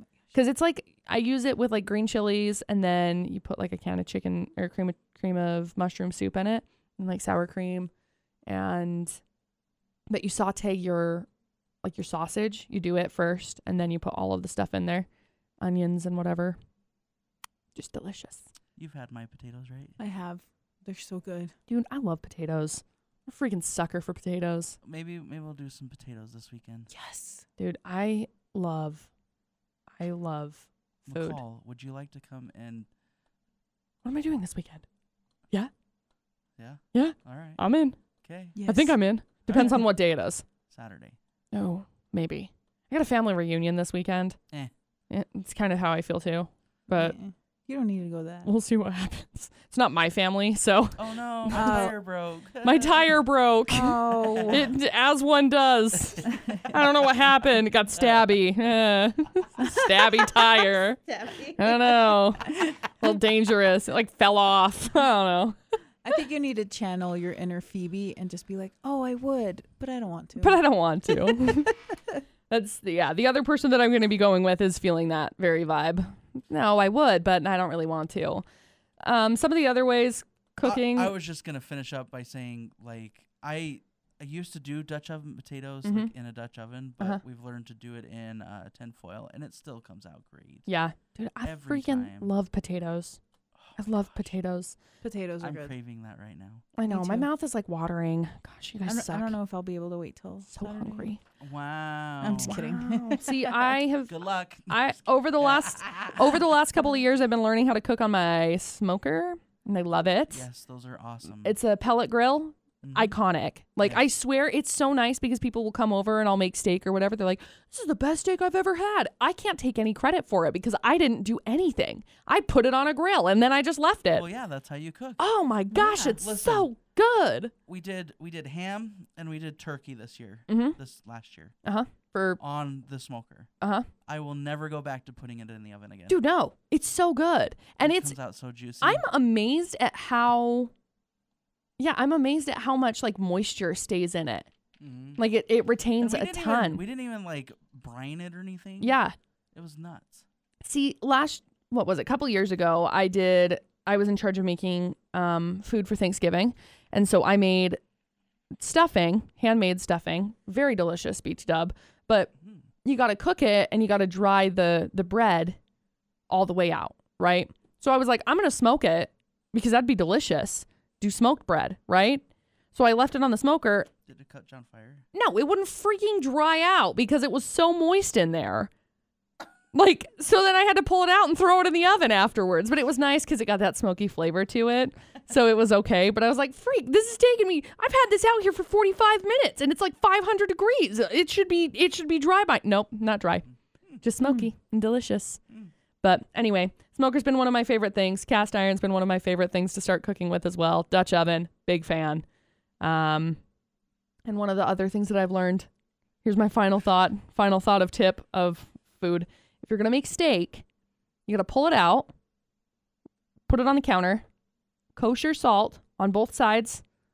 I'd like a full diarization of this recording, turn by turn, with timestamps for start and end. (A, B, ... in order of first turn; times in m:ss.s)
0:00.3-0:07.9 A
0:08.4-0:09.2 A
0:10.1-0:11.3 A
0:11.8-0:15.1 A
0:15.6-0:16.6 A
0:17.7-0:18.4 A
0:18.8-0:20.0 B
0:20.0-0:21.5 C
0:21.7-0:24.8 A
0:24.8-0:26.9 B
0:26.9-0:27.4 C
0:27.6-0:29.1 A
0:30.0-0:31.4 A
0:31.0-0:32.9 B
0:34.0-0:34.8 A
0:36.6-0:37.6 B
0:36.9-0:38.0 A
0:38.2-0:38.6 B
0:38.5-0:39.0 C
0:38.6-0:40.4 A
0:39.5-0:39.9 B
0:40.7-0:41.2 B
0:41.5-0:44.4 A
0:45.1-0:47.2 A
0:46.9-0:48.5 C
0:48.4-0:51.8 A
0:51.0-0:53.2 B
0:51.5-0:51.9 C
0:52.6-1:01.0 A
0:53.7-0:54.7 C
0:54.2-0:54.7 B
0:57.9-0:58.3 B
1:00.3-1:02.1 C
1:01.6-1:05.6 A
1:06.0-1:11.6 C
1:10.4-1:11.8 A
1:12.5-1:18.4 A
1:19.0-1:21.1 A
1:20.6-1:30.7 B
1:25.8-1:26.1 A
1:30.7-1:33.2 A
1:31.4-1:32.3 B
1:33.5-1:34.1 B
1:33.8-1:34.8 A
1:35.0-1:35.7 C
1:35.4-1:36.7 B
1:36.8-1:39.4 A
1:36.8-1:37.3 C
1:38.8-1:41.2 C
1:40.5-1:41.2 A
1:41.4-1:42.6 B
1:42.2-1:43.8 C
1:42.4-1:44.1 A
1:44.1-1:46.4 B
1:44.7-1:50.5 A
1:50.3-1:51.6 B
1:51.3-2:04.2 A
1:52.8-1:53.2 B
2:04.1-2:05.2 B
2:05.2-2:07.5 A
2:05.7-2:06.2 C
2:06.0-2:06.7 B
2:07.7-2:11.5 B
2:10.5-2:10.8 A
2:11.6-2:12.4 A
2:12.4-2:13.5 B
2:13.6-2:13.9 A
2:14.0-2:16.2 B
2:16.1-2:18.2 A
2:17.8-2:19.0 B
2:18.8-2:20.7 A
2:21.8-2:24.5 A
2:24.8-2:25.2 B
2:25.2-2:26.8 A
2:26.0-2:29.0 B
2:28.8-2:29.1 A
2:29.5-2:30.2 B
2:30.6-2:37.8 A
2:38.6-2:42.3 A
2:42.8-2:45.6 A
2:46.3-2:53.9 A
2:54.0-2:55.0 B
2:55.1-2:58.7 A
2:59.7-3:13.5 A
3:14.0-3:15.4 A
3:14.2-3:14.5 C
3:16.0-3:22.2 A
3:22.8-3:23.4 A
3:24.2-3:25.7 A
3:26.2-3:30.6 A
3:31.3-3:32.1 A
3:33.5-3:34.2 A
3:35.0-3:36.8 A